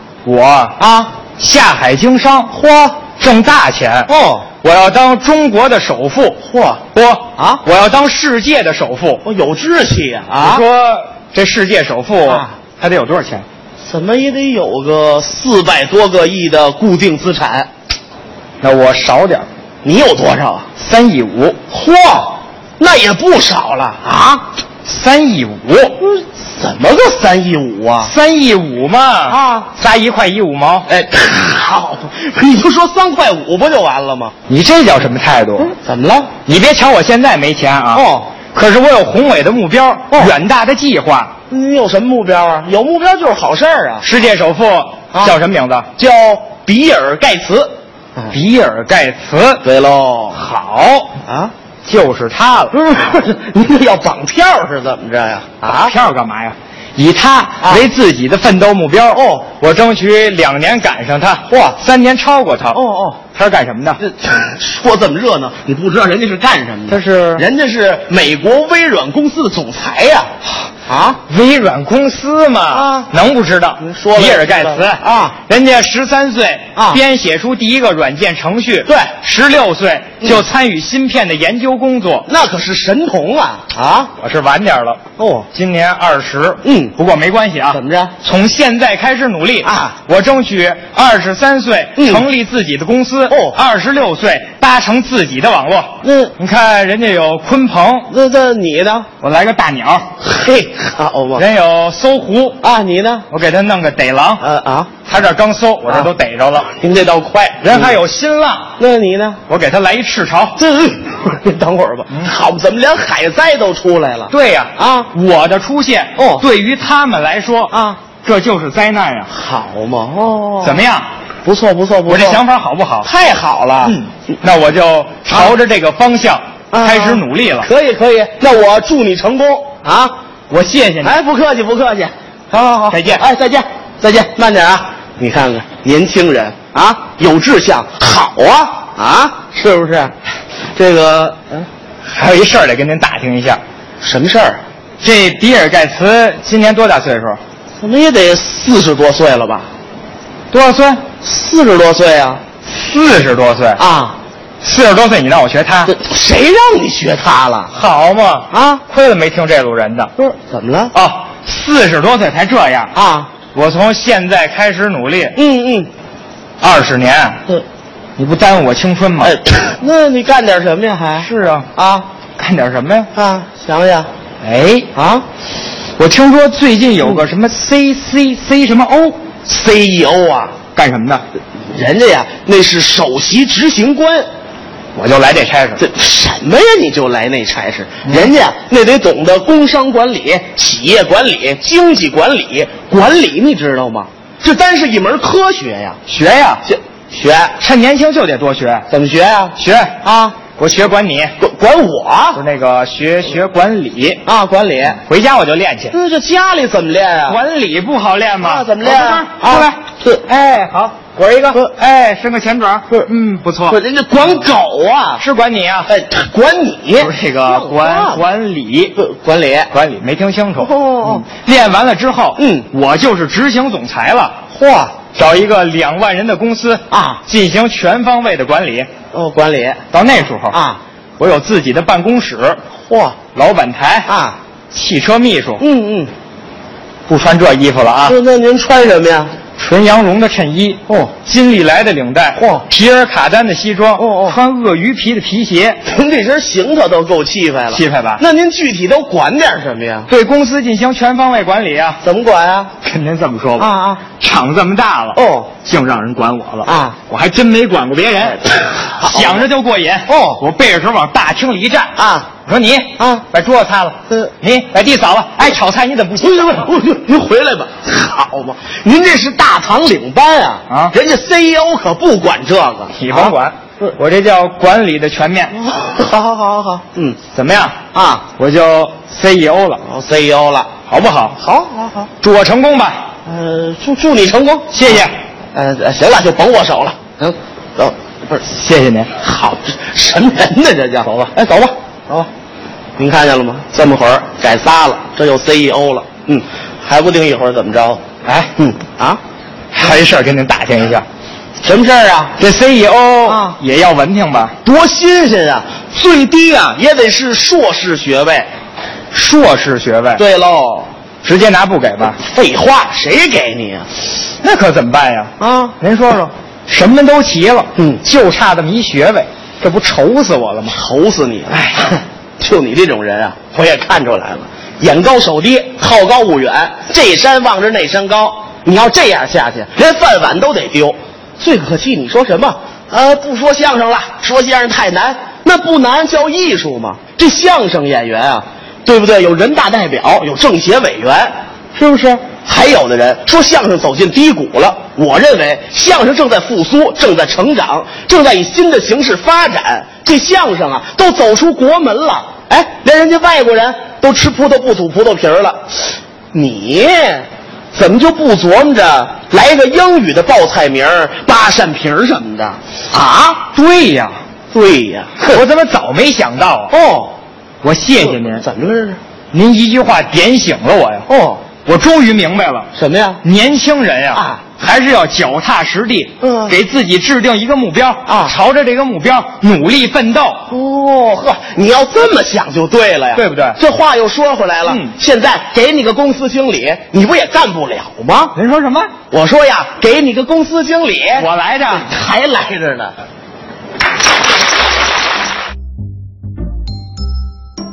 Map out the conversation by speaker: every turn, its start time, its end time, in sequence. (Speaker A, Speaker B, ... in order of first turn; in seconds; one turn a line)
Speaker A: 0.2-0.8
Speaker B: 0.8-1.2
Speaker A: 1.4-4.1
Speaker B: 2.6-3.0
Speaker B: 4.1-4.5
Speaker A: 4.6-6.4
Speaker B: 6.4-6.8
Speaker A: 6.9-9.2
Speaker B: 7.4-7.6
Speaker B: 9.2-10.6
Speaker A: 10.4-13.4
Speaker B: 12.2-12.5
Speaker B: 13.8-17.7
Speaker A: 18.6-19.4
Speaker B: 19.8-20.7
Speaker A: 20.8-21.6
Speaker B: 21.7-24.5
Speaker A: 24.8-25.9
Speaker B: 26.0-28.1
Speaker A: 28.0-30.9
Speaker B: 29.3-29.7
Speaker B: 30.9-34.3
Speaker A: 34.5-35.8
Speaker B: 35.6-36.3
Speaker A: 36.5-41.3
Speaker B: 37.9-38.3
Speaker B: 40.1-40.3
Speaker B: 41.5-44.1
Speaker A: 44.0-45.9
Speaker B: 45.1-45.4
Speaker B: 46.0-48.4
Speaker A: 48.3-49.6
Speaker B: 49.6-50.4
Speaker A: 50.4-51.1
Speaker B: 51.2-51.5
Speaker A: 51.8-52.7
Speaker B: 52.7-56.0
Speaker A: 55.7-62.8
Speaker B: 57.6-57.9
Speaker B: 59.1-59.5
Speaker B: 61.5-61.8
Speaker B: 62.7-63.2
Speaker A: 63.3-64.0
Speaker B: 64.0-70.3
Speaker A: 66.9-67.4
Speaker B: 70.9-71.2
Speaker A: 71.3-82.2
Speaker B: 72.7-73.1
Speaker B: 73.8-75.4
Speaker B: 76.8-77.0
Speaker B: 78.9-79.1
Speaker B: 82.3-84.1
Speaker A: 84.2-98.1
Speaker B: 85.2-85.5
Speaker B: 86.6-87.0
Speaker B: 87.7-88.1
Speaker B: 89.6-90.0
Speaker B: 92.0-92.3
Speaker B: 93.3-93.6
Speaker B: 96.0-96.4
Speaker B: 98.1-99.1
Speaker A: 99.2-100.1
Speaker B: 100.2-101.5
Speaker A: 101.4-102.6
Speaker B: 102.6-103.3
Speaker A: 103.3-104.4
Speaker B: 104.4-104.9
Speaker A: 105.0-106.7
Speaker B: 106.7-108.0
Speaker A: 107.6-108.8
Speaker B: 108.8-109.4
Speaker A: 109.5-110.6
Speaker B: 110.6-115.1
Speaker A: 114.3-119.3
Speaker B: 116.2-116.4
Speaker B: 117.7-118.0
Speaker B: 119.3-120.8
Speaker A: 120.6-121.1
Speaker B: 121.4-122.4
Speaker A: 122.0-123.1
Speaker B: 123.0-124.0
Speaker A: 123.8-127.7
Speaker B: 126.7-130.1
Speaker A: 130.5-131.2
Speaker B: 131.0-140.1
Speaker A: 132.9-133.2
Speaker B: 140.7-141.7
Speaker A: 142.1-143.6
Speaker B: 144.0-144.6
Speaker A: 145.0-147.4
Speaker B: 147.8-149.7
Speaker A: 150.5-151.0
Speaker B: 151.2-152.4
Speaker A: 152.7-153.8
Speaker B: 153.8-154.2
Speaker A: 154.6-155.9
Speaker B: 155.9-157.7
Speaker A: 157.7-160.1
Speaker B: 158.5-158.8
Speaker B: 160.2-160.9
Speaker A: 160.9-162.9
Speaker B: 162.9-163.3
Speaker A: 163.5-165.4
Speaker B: 165.3-165.9
Speaker A: 166.6-167.4
Speaker A: 168.2-169.4
Speaker B: 169.2-172.1
Speaker A: 171.2-171.7
Speaker A: 172.4-173.1
Speaker B: 173.1-174.1
Speaker A: 174.4-174.9
Speaker B: 174.9-175.2
Speaker A: 176.0-179.2
Speaker B: 179.4-180.6
Speaker A: 180.8-181.2
Speaker B: 181.7-184.3
Speaker A: 184.9-185.8
Speaker B: 185.8-196.0
Speaker A: 196.1-196.6
Speaker B: 196.6-197.6
Speaker A: 197.6-198.9
Speaker B: 198.9-200.4
Speaker A: 199.6-199.9
Speaker A: 200.5-201.3
Speaker B: 201.4-202.4
Speaker A: 202.3-204.2
Speaker B: 204.2-205.0
Speaker A: 205.0-205.9
Speaker B: 205.9-207.4
Speaker A: 207.2-213.8
Speaker B: 208.4-210.2
Speaker B: 213.7-215.2
Speaker A: 215.2-215.9
Speaker B: 215.9-218.2
Speaker A: 217.0-219.0
Speaker B: 218.9-219.7
Speaker A: 219.7-224.4
Speaker B: 220.6-221.3
Speaker B: 222.4-222.7
Speaker B: 224.5-225.0
Speaker A: 225.1-228.9
Speaker B: 226.9-227.2
Speaker B: 229.1-229.8
Speaker A: 229.9-230.6
Speaker B: 230.5-230.8
Speaker A: 231.2-232.6
Speaker B: 232.8-233.2
Speaker A: 233.3-234.1
Speaker B: 234.1-234.4
Speaker A: 234.7-235.6
Speaker B: 235.6-236.1
Speaker A: 237.1-238.2
Speaker B: 238.0-239.3
Speaker A: 239.6-245.8
Speaker B: 240.9-241.1
Speaker B: 242.3-242.6
Speaker B: 243.9-244.4
Speaker B: 245.8-250.1
Speaker A: 247.7-248.2
Speaker A: 250.1-252.0
Speaker B: 252.0-252.7
Speaker A: 252.8-261.9
Speaker B: 253.6-254.0
Speaker B: 255.1-255.5
Speaker B: 256.6-257.0
Speaker B: 258.9-259.4
Speaker B: 260.1-260.4
Speaker B: 261.9-262.3
Speaker A: 262.4-266.7
Speaker B: 263.0-263.2
Speaker B: 266.2-273.9
Speaker A: 270.7-270.9
Speaker A: 272.9-275.5
Speaker B: 275.5-277.2
Speaker A: 277.3-277.8
Speaker B: 277.9-278.3
Speaker A: 278.4-279.8
Speaker B: 279.8-282.1
Speaker A: 280.9-281.3
Speaker A: 282.2-283.0
Speaker B: 283.2-285.0
Speaker A: 284.7-285.1
Speaker B: 285.5-288.4
Speaker A: 288.4-289.1
Speaker B: 289.2-292.3
Speaker B: 293.0-298.0
Speaker A: 298.2-298.5
Speaker B: 298.6-299.2
Speaker A: 299.7-301.0
Speaker B: 301.6-302.4
Speaker A: 302.4-304.5
Speaker B: 303.2-303.6
Speaker B: 304.6-308.5
Speaker A: 309.1-310.2
Speaker B: 310.1-310.9
Speaker A: 311.2-312.2
Speaker B: 312.2-313.9
Speaker A: 314.4-320.8
Speaker B: 315.4-315.8
Speaker B: 317.8-318.0
Speaker B: 320.7-363.4
Speaker A: 363.4-364.2
Speaker B: 364.5-365.4
Speaker A: 365.3-366.7
Speaker B: 366.7-367.1
Speaker A: 367.6-368.4
Speaker B: 368.0-369.0
Speaker A: 369.3-371.1
Speaker B: 371.1-371.4
Speaker A: 371.6-372.7
Speaker B: 372.7-373.2
Speaker A: 373.2-380.4
Speaker B: 374.1-374.6
Speaker B: 376.2-376.6
Speaker B: 378.1-378.4
Speaker B: 380.5-388.4
Speaker A: 383.1-383.6
Speaker A: 384.6-384.9
Speaker A: 388.3-388.9
Speaker B: 389.1-392.9
Speaker A: 391.2-391.9